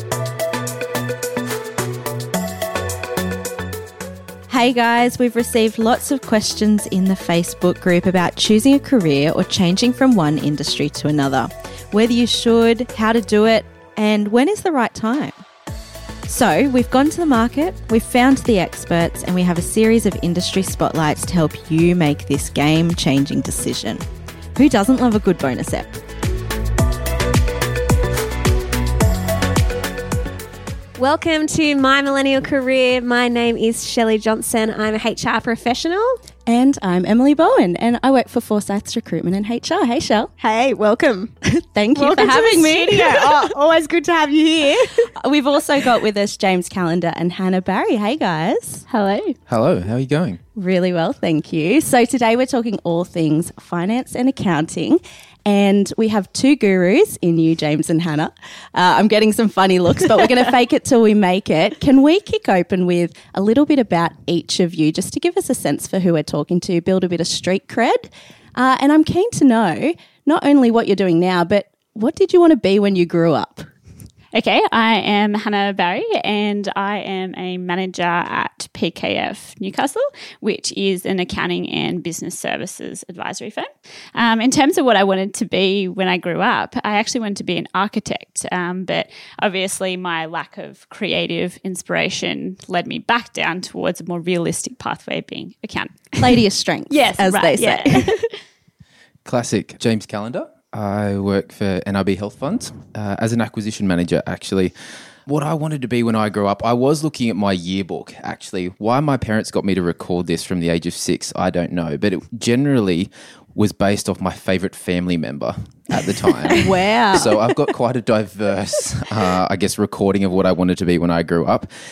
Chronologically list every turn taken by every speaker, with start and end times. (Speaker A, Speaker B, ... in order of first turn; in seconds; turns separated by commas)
Speaker A: 4.5-15.4, Speaker A: 16.2-24.0, Speaker A: 24.5-25.9, Speaker B: 31.0-36.2, Speaker A: 36.5-40.3, Speaker B: 40.4-41.3, Speaker A: 41.5-43.5, Speaker B: 41.9-45.1, Speaker A: 45.2-48.9, Speaker C: 48.9-49.3, Speaker D: 49.5-50.4, Speaker A: 50.5-73.7, Speaker C: 74.3-96.4, Speaker A: 96.2-98.1, Speaker C: 96.9-98.3, Speaker D: 99.2-104.7, Speaker D: 105.3-116.6, Speaker A: 116.5-117.4, Speaker D: 117.1-121.7